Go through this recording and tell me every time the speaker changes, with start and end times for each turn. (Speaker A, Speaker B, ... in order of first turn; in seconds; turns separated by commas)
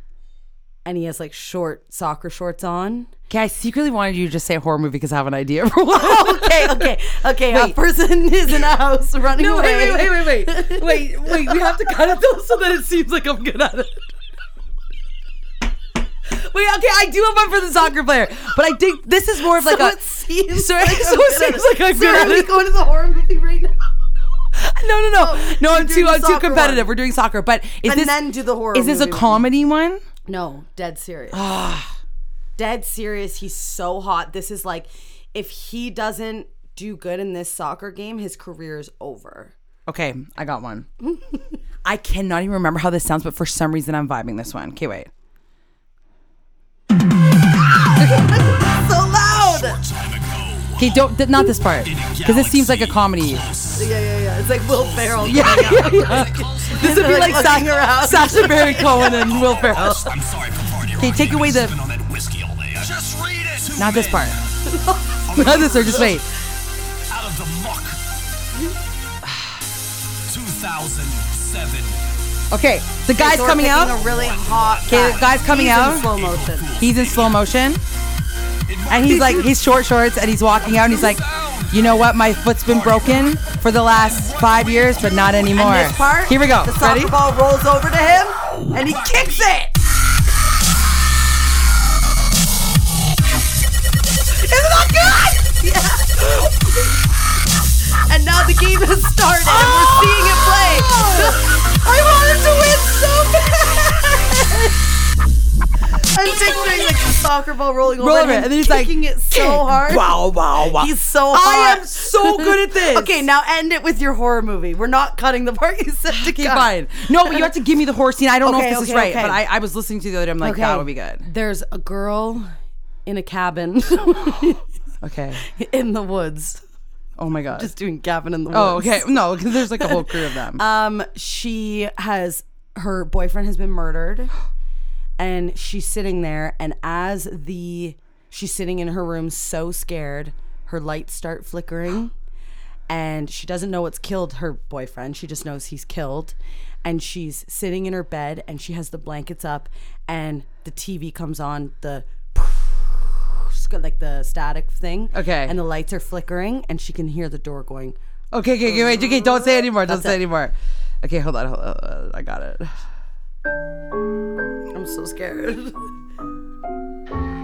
Speaker A: 0.8-3.1, Speaker B: 3.3-6.9, Speaker A: 5.9-11.3, Speaker B: 7.5-7.8, Speaker B: 9.3-14.1, Speaker B: 16.3-20.0, Speaker A: 19.5-23.8, Speaker B: 20.5-22.6, Speaker B: 24.5-30.0, Speaker A: 25.2-26.9, Speaker A: 27.9-29.5, Speaker A: 30.3-31.4, Speaker B: 31.3-31.9, Speaker A: 32.6-39.5, Speaker B: 39.9-40.9, Speaker B: 41.8-45.1, Speaker A: 47.9-49.8, Speaker C: 49.3-53.9, Speaker B: 50.8-53.5, Speaker A: 53.8-60.1, Speaker C: 54.6-64.5, Speaker B: 55.2-60.0, Speaker B: 61.0-61.8, Speaker B: 63.8-64.4, Speaker A: 64.7-66.2, Speaker C: 65.3-66.2, Speaker B: 65.3-66.2, Speaker C: 67.1-68.0, Speaker C: 70.3-72.0, Speaker B: 72.5-74.0, Speaker A: 73.1-76.7, Speaker C: 73.9-77.4, Speaker B: 74.9-76.1, Speaker B: 76.8-77.8, Speaker C: 78.7-79.5, Speaker B: 78.9-87.2, Speaker C: 80.7-82.0, Speaker C: 82.7-85.3, Speaker A: 85.5-89.7, Speaker C: 88.6-89.6, Speaker B: 94.5-95.2, Speaker A: 94.6-97.1, Speaker A: 98.1-104.8, Speaker B: 99.5-101.5, Speaker B: 102.0-103.0, Speaker A: 106.0-117.5, Speaker B: 106.2-107.0, Speaker B: 108.0-113.2, Speaker B: 116.1-121.3, Speaker A: 118.4-119.4, Speaker A: 120.4-122.5, Speaker A: 123.1-124.6, Speaker B: 125.0-125.4, Speaker A: 125.4-126.6, Speaker B: 127.2-127.7, Speaker A: 127.5-134.3, Speaker B: 128.5-130.6, Speaker A: 135.2-142.1, Speaker A: 142.9-158.0, Speaker B: 155.1-155.6, Speaker B: 158.3-162.8, Speaker A: 158.6-160.2, Speaker A: 164.7-165.8